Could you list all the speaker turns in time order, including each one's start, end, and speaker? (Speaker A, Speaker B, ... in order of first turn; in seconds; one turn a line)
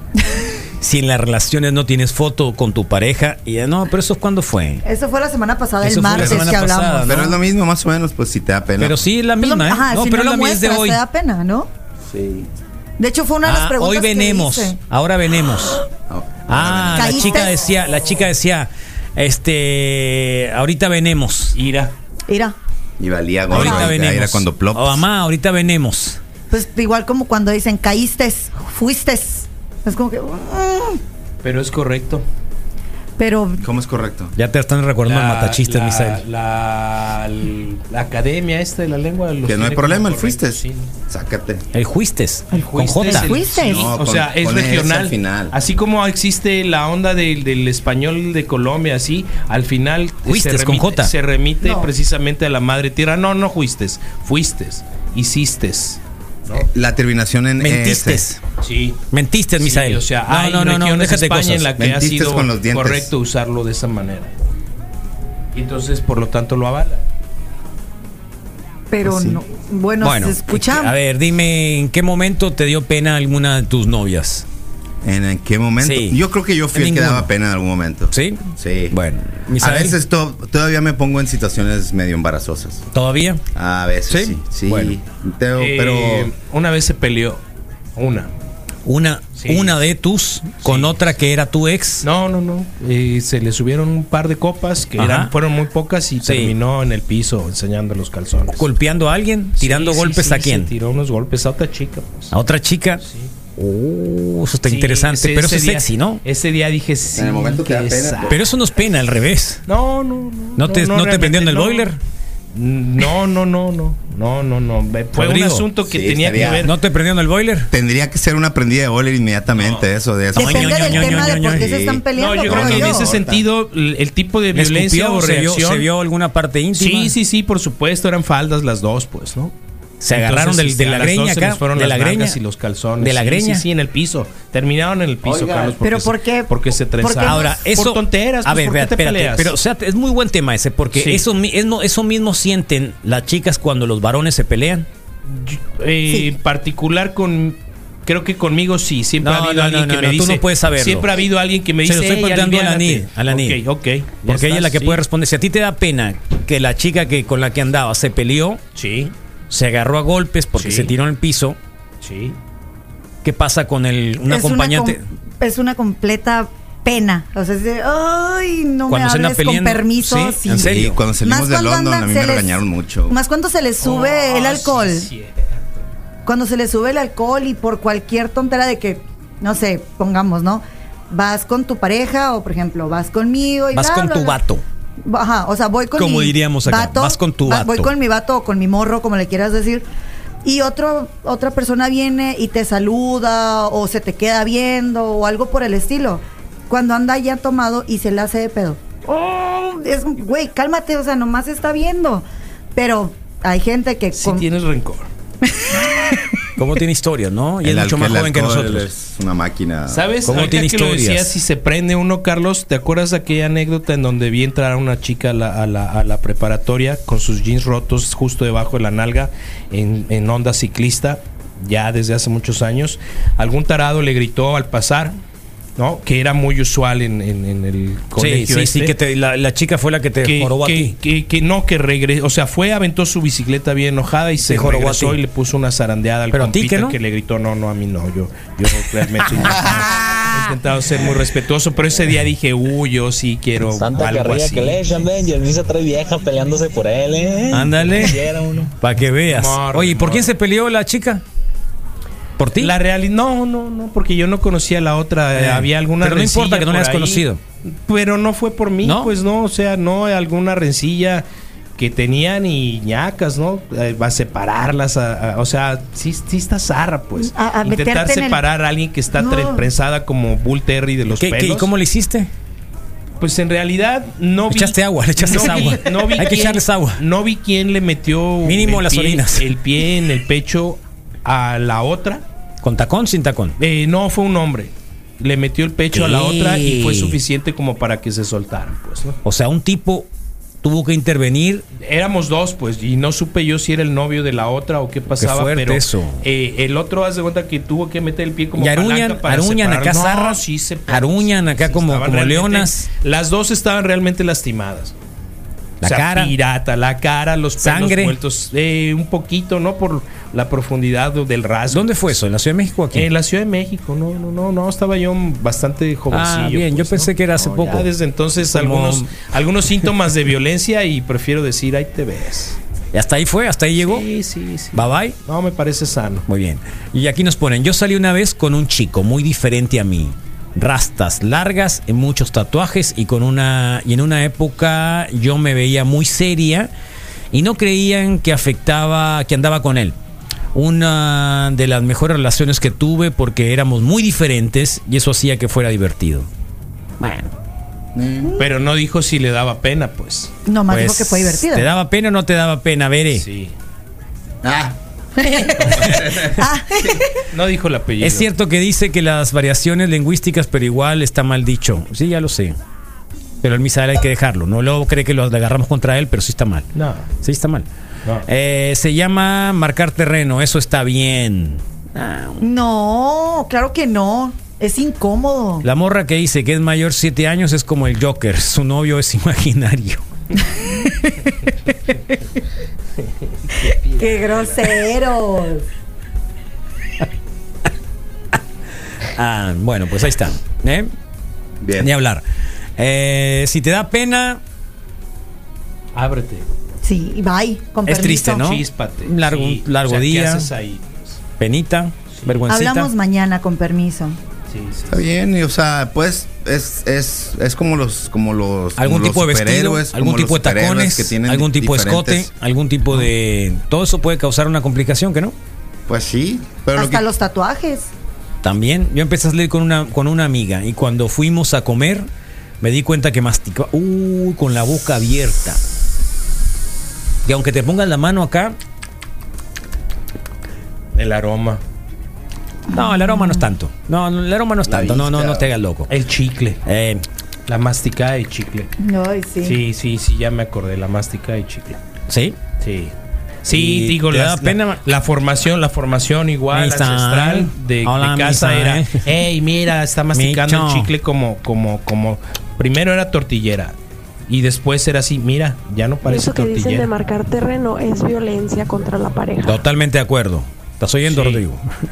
Speaker A: 0.8-4.8
Speaker B: 4.8-7.1
Speaker A: 5.8-7.4
Speaker C: 6.1-9.0
Speaker A: 8.8-11.0
Speaker B: 9.4-11.7
Speaker C: 12.1-12.5
Speaker B: 13.0-14.8
Speaker A: 13.4-15.9
Speaker C: 16.1-17.4
Speaker A: 16.5-21.5
Speaker B: 16.9-17.6
Speaker D: 21.6-21.9
Speaker B: 22.3-22.5
Speaker C: 23.0-25.0
Speaker A: 23.5-26.2
Speaker B: 23.5-23.9
Speaker B: 26.5-31.0
Speaker D: 31.4-32.2
Speaker B: 33.2-33.6
Speaker C: 33.6-34.3
Speaker A: 34.4-36.2
Speaker D: 35.0-40.9
Speaker C: 39.4-41.6
Speaker A: 41.7-43.5
Speaker B: 42.5-43.9
Speaker D: 42.6-56.7
Speaker C: 43.5-45.5
Speaker A: 50.3-51.1
Speaker B: 51.6-51.9
Speaker C: 56.5-58.2
Speaker A: 57.6-58.4
Speaker D: 58.6-59.0
Speaker A: 59.1-61.7
Speaker D: 59.6-64.3
Speaker C: 61.7-63.1
Speaker D: 65.5-67.0
Speaker B: 68.9-70.9
Speaker C: 69.0-69.4
Speaker A: 70.0-74.5
Speaker C: 75.0-79.0
Speaker A: 75.8-77.3
Speaker A: 78.1-80.0
Speaker C: 79.6-82.9
Speaker A: 82.9-83.4
Speaker C: 83.5-86.3
Speaker A: 84.1-85.0
Speaker D: 85.5-87.4
Speaker D: 88.0-88.3
Speaker A: 88.8-92.1
Speaker D: 89.3-89.8
Speaker D: 90.6-91.0
Speaker D: 92.0-98.7
Speaker A: 95.0-95.3
Speaker A: 96.2-96.5
Speaker A: 98.5-100.7
Speaker D: 99.6-102.3
Speaker A: 102.3-103.0
Speaker D: 103.0-103.3
Speaker A: 103.5-106.2
Speaker D: 104.7-108.4
Speaker C: 107.1-108.4
Speaker A: 108.3-109.6
Speaker D: 109.7-111.9
Speaker A: 110.6-112.0
Speaker D: 112.5-116.8
Speaker A: 115.1-115.7
Speaker C: 115.9-116.7
Speaker A: 116.6-117.7
Speaker C: 117.7-123.4
Speaker D: 119.5-119.9
Speaker A: 120.3-121.7
Speaker B: 120.3-123.1
Speaker D: 122.1-125.9
Speaker A: 124.5-127.1
Speaker D: 126.8-129.5
Speaker A: 130.0-132.4
Speaker D: 130.1-139.5
Speaker A: 133.0-133.6
Speaker B: 135.8-137.5
Speaker A: 137.2-144.9
Speaker D: 140.9-141.2
Speaker D: 145.3-155.0
Speaker A: 149.2-151.2
Speaker A: 151.8-153.6
Speaker A: 154.2-158.6
Speaker D: 158.7-159.1
Speaker A: 159.5-161.6
Speaker D: 160.6-160.9
Speaker D: 162.0-162.3
Speaker A: 163.2-165.0
Speaker B: 164.3-170.7
Speaker A: 168.9-171.0
Speaker C: 170.6-173.1
Speaker B: 171.2-175.1
Speaker D: 173.8-175.8
Speaker B: 176.2-184.4
Speaker A: 183.7-184.6
Speaker B: 185.0-189.8
Speaker A: 185.9-187.9
Speaker B: 190.4-204.4
Speaker D: 204.1-205.1
Speaker B: 205.5-206.3
Speaker A: 206.6-208.9
Speaker C: 207.6-210.1
Speaker D: 209.9-225.2
Speaker A: 210.2-211.4
Speaker D: 225.8-228.9
Speaker A: 228.2-230.9
Speaker D: 230.2-244.8
Speaker A: 234.4-235.2
Speaker A: 236.3-237.0
Speaker E: 243.7-248.7
Speaker A: 247.5-248.2
Speaker A: 248.8-251.2
Speaker D: 249.3-250.3
Speaker A: 252.4-252.7
Speaker D: 252.6-261.2
Speaker A: 255.3-257.4
Speaker A: 258.8-259.1
Speaker D: 261.8-271.7
Speaker B: 267.2-268.4
Speaker B: 269.1-269.6
Speaker A: 271.1-272.3
Speaker D: 273.2-282.2
Speaker A: 274.5-277.0
Speaker A: 278.4-279.5
Speaker A: 282.6-283.6
Speaker D: 283.6-289.2
Speaker A: 285.9-287.2
Speaker A: 289.2-290.1
Speaker A: 290.6-291.6
Speaker D: 291.8-304.9
Speaker A: 295.2-296.2
Speaker A: 298.6-302.9
Speaker A: 305.8-306.3
Speaker D: 305.8-312.0
Speaker A: 307.6-308.2
Speaker A: 311.7-313.1
Speaker D: 312.9-322.6
Speaker A: 316.1-319.2
Speaker A: 322.9-324.1
Speaker D: 323.8-326.2
Speaker A: 324.7-325.2
Speaker A: 326.3-336.7
Speaker A: 337.3-340.0
Speaker A: 340.5-346.3
Speaker A: 347.0-347.3
Speaker C: 347.9-348.3
Speaker D: 348.4-350.3
Speaker B: 350.5-351.7
Speaker A: 350.7-353.2
Speaker D: 353.1-353.5
Speaker C: 354.4-354.8
Speaker B: 355.2-357.1
Speaker C: 355.6-357.0
Speaker D: 357.3-358.3
Speaker A: 358.0-362.6
Speaker A: 363.4-366.7
Speaker D: 366.7-367.1
Speaker A: 367.2-367.7
Speaker A: 368.3-372.4
Speaker B: 372.4-375.6
Speaker A: 375.6-380.1
Speaker B: 380.6-381.2
Speaker D: 383.0-384.8
Speaker B: 383.6-385.6
Speaker A: 389.1-390.9
Speaker C: 391.6-391.9
Speaker A: 391.8-392.2
Speaker A: 392.8-394.4
Speaker D: 395.9-396.4
Speaker B: 396.8-398.4
Speaker A: 397.9-400.5
Speaker D: 398.4-401.2
Speaker A: 401.4-402.9
Speaker D: 402.1-402.4
Speaker B: 402.5-404.2
Speaker D: 404.5-405.0
Speaker C: 404.9-412.3
Speaker A: 408.8-415.3
Speaker C: 415.9-417.0
Speaker B: 416.7-417.9
Speaker A: 418.4-422.1
Speaker A: 422.6-425.6
Speaker A: 427.2-428.6
Speaker D: 430.9-431.6
Speaker B: 432.7-433.4
Speaker A: 432.7-435.9
Speaker C: 434.7-435.5
Speaker D: 435.9-436.6
Speaker A: 436.6-437.0
Speaker D: 437.5-438.7
Speaker B: 438.8-439.6
Speaker D: 439.4-441.8
Speaker A: 442.1-442.4
Speaker D: 442.6-442.9
Speaker D: 443.4-453.7
Speaker A: 443.5-444.8
Speaker A: 446.5-449.0
Speaker A: 450.1-450.9
Speaker D: 454.3-456.9
Speaker F: 456.1-459.6
Speaker A: 459.4-461.6
Speaker D: 461.1-461.4